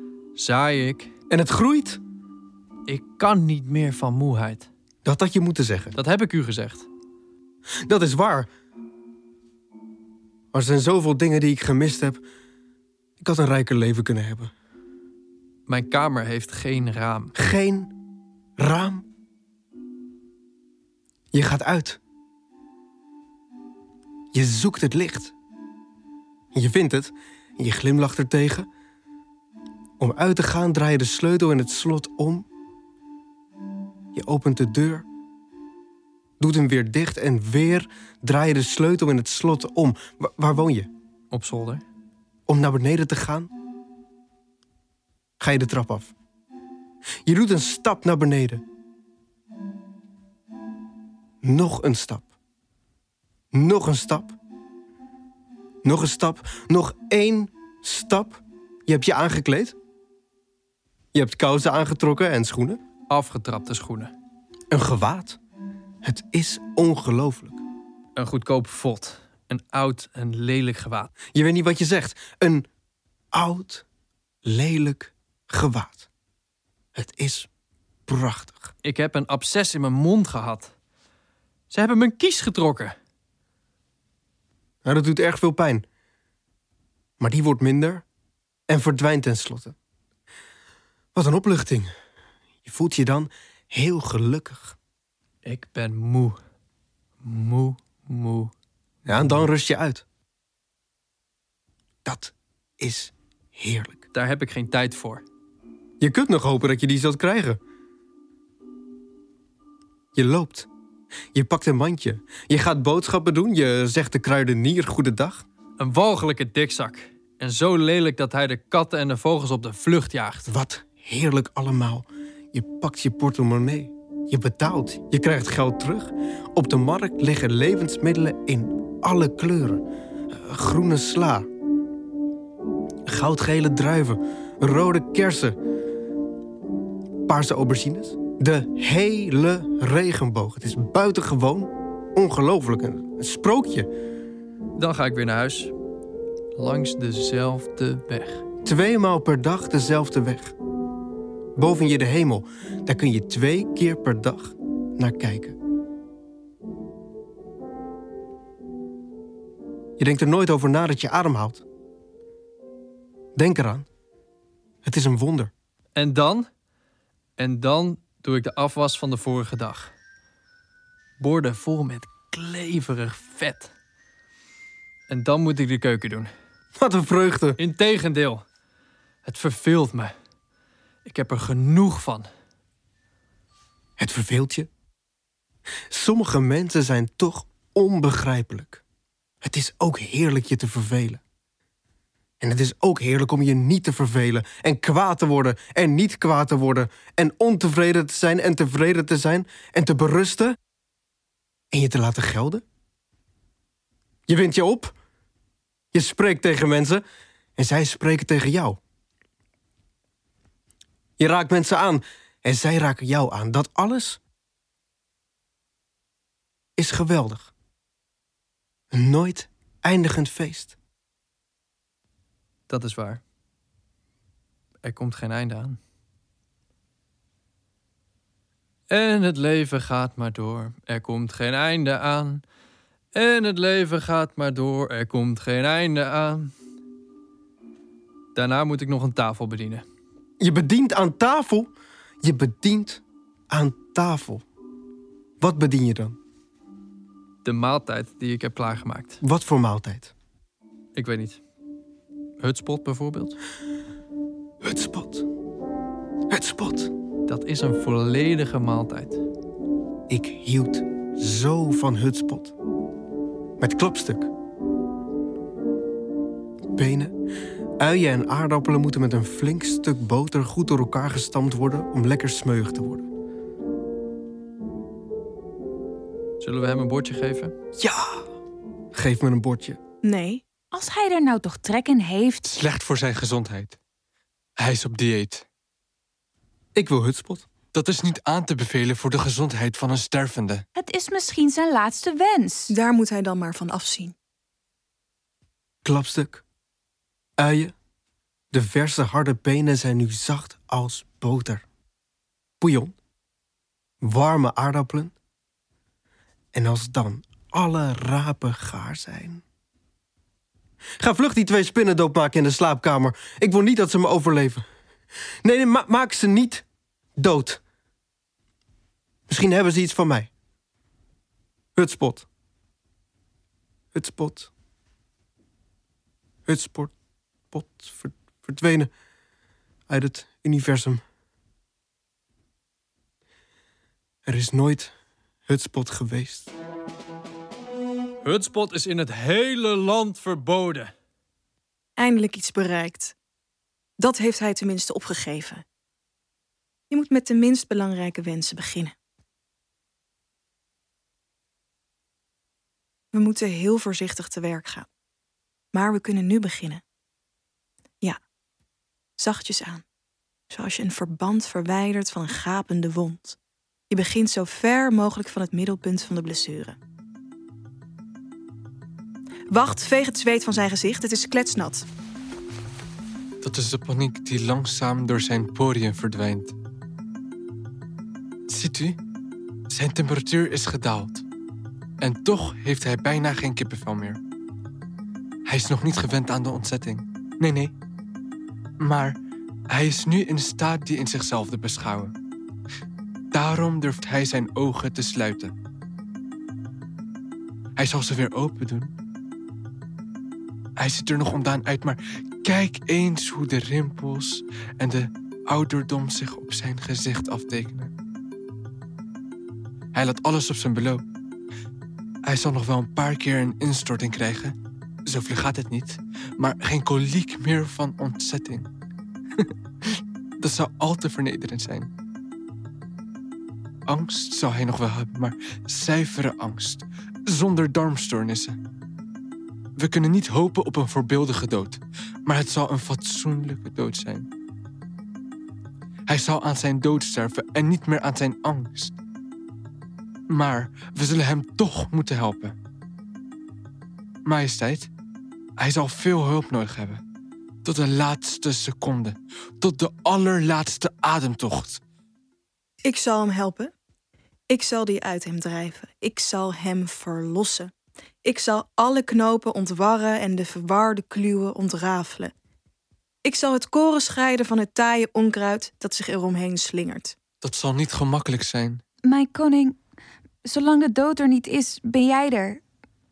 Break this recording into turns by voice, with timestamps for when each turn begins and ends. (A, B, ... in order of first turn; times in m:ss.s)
0:00.4-0:01.1 A
0:01.3-0:02.0 B
0:02.9-0:04.7 A
0:05.0-0:06.0 B
0:06.0-0:06.9 A
0:07.9-0:08.5 B
0:10.5-0:12.2 B
0:13.2-0:14.5 B
0:15.7-0:17.3 A
0:17.4-0:17.9 B
0:18.6-0:19.0 B
0:21.3-0:22.0 B
0:24.3-0:25.3 B
0:26.5-0:28.7 B
0:30.0-0:32.5 B
0:34.1-0:35.1 B
0:36.4-0:40.9 B
0:41.3-0:41.8 A
0:42.5-0:43.5 B
0:45.4-0:46.1 B
0:47.2-0:48.6 B
0:51.4-0:52.3 B
0:53.5-0:54.4 B
0:55.8-0:59.8 B
1:01.1-1:02.8 B
1:03.1-1:04.1 A
1:04.7-1:05.4 B
1:06.0-1:07.6 B
1:08.2-1:11.1 A
1:11.3-1:12.7 B
1:13.3-1:13.8 B
1:14.4-1:16.0 B
1:17.0-1:17.5 B
1:18.1-1:18.7 B
1:18.8-1:20.7 A
1:21.7-1:23.0 A
1:24.8-1:25.8 B
1:27.2-1:28.0 B
1:28.7-1:29.8 B
1:31.2-1:31.9 B
1:32.6-1:34.8 B
1:35.4-1:36.4 A
1:37.2-1:38.5 A
1:39.1-1:40.0 B
1:39.1-1:39.4 A
1:42.0-1:44.0 B
1:44.1-1:45.2 A
1:46.0-1:47.6 B
1:50.2-1:50.7 B
1:51.3-1:55.4 B
1:55.8-2:00.5 A
2:00.5-2:11.5 B
2:13.1-2:15.6 B
2:17.3-2:23.9 B
2:24.8-2:25.7 A
2:26.6-2:28.4 A
2:28.6-2:30.6 B
2:31.6-2:35.6 B
2:40.0-2:41.6 B
2:43.4-2:43.9 B
2:44.8-2:45.5 B
2:46.0-2:46.5 A
2:47.4-2:49.9 A
2:51.2-2:53.7 A
2:55.1-2:56.3 A
2:56.8-2:57.6 B
2:57.6-2:58.4 A
2:59.2-3:00.1 A
3:01.0-3:02.3 A
3:04.0-3:04.7 B
3:05.9-3:08.8 B
3:09.4-3:11.2 B
3:12.4-3:20.6 B
3:21.7-3:22.6 B
3:24.3-3:25.0 B
3:25.9-3:27.0 B
3:27.6-3:28.8 B
3:31.2-3:34.2 B
3:36.8-3:37.5 B
3:38.9-3:40.8 B
3:42.7-3:43.2 A
3:44.8-3:45.8 A
3:48.9-3:52.4 A
3:53.1-3:56.5 A
3:58.4-3:59.8 A
4:00.4-4:04.4 B
4:05.4-4:06.2 B
4:07.4-4:09.2 A
4:09.2-4:10.1 B
4:11.0-4:11.4 A
4:12.4-4:13.4 A
4:14.6-4:15.3 B
4:16.3-4:16.9 B
4:17.3-4:19.2 A
4:20.1-4:22.5 B
4:23.6-4:24.3 B
4:26.8-4:27.2 B
4:27.8-4:33.1 B
4:36.4-4:37.5 A
4:37.8-4:38.3 B
4:38.9-4:39.8 B
4:40.0-4:40.4 C
4:40.7-4:42.4 D
4:42.4-4:43.8 E
4:44.6-4:45.5 E
4:46.8-4:47.5 B
4:47.7-4:50.7 E
4:50.8-4:52.7 D
4:52.7-4:54.2 C
4:55.8-4:56.4 B
4:57.4-4:57.8 B
4:58.5-5:01.6 B
5:02.6-5:02.9 B
5:04.0-5:05.1 B
5:06.5-5:09.4 B
5:11.0-5:14.6 B
5:15.4-5:16.6 B
5:17.2-5:17.6 B
5:19.3-5:20.3 B
5:21.8-5:22.3 B
5:23.9-5:24.5 B
5:26.5-5:26.9 B
5:27.5-5:28.9 B
5:29.9-5:31.0 B
5:34.3-5:34.9 B
5:35.5-5:36.5 B
5:38.2-5:40.9 A
5:42.0-5:43.2 C
5:44.0-5:45.6 C
5:46.9-5:49.0 C
5:53.1-5:54.9 C
5:55.7-5:56.8 C
5:59.2-5:59.8 C
6:00.5-6:03.4 C
6:03.9-6:06.8 C
6:09.5-6:11.8 C
6:13.4-6:16.5 E
6:18.5-6:19.0 E
6:19.7-6:21.2 E
6:22.0-6:24.2 E
6:25.5-6:27.7 E
6:28.8-6:29.2 E
6:29.7-6:32.1 E
6:33.3-6:35.6 E
6:37.8-6:38.9 E
6:40.8-6:47.9 E
6:50.0-6:51.0 E
6:52.3-6:54.6 E
6:55.1-6:58.7 E
6:59.4-7:01.9 E
7:03.9-7:08.6 E
7:09.8-7:14.3 E
7:16.1-7:19.0 E
7:20.3-7:22.6 E
7:24.2-7:24.9 E
7:25.6-7:27.0 E
7:27.6-7:31.8 E
7:32.8-7:33.7 C
7:34.5-7:37.7 C
7:38.2-7:42.3 C
7:43.2-7:47.2 C
7:47.4-7:48.8 E
7:49.0-7:49.8 D
7:50.4-7:52.6 D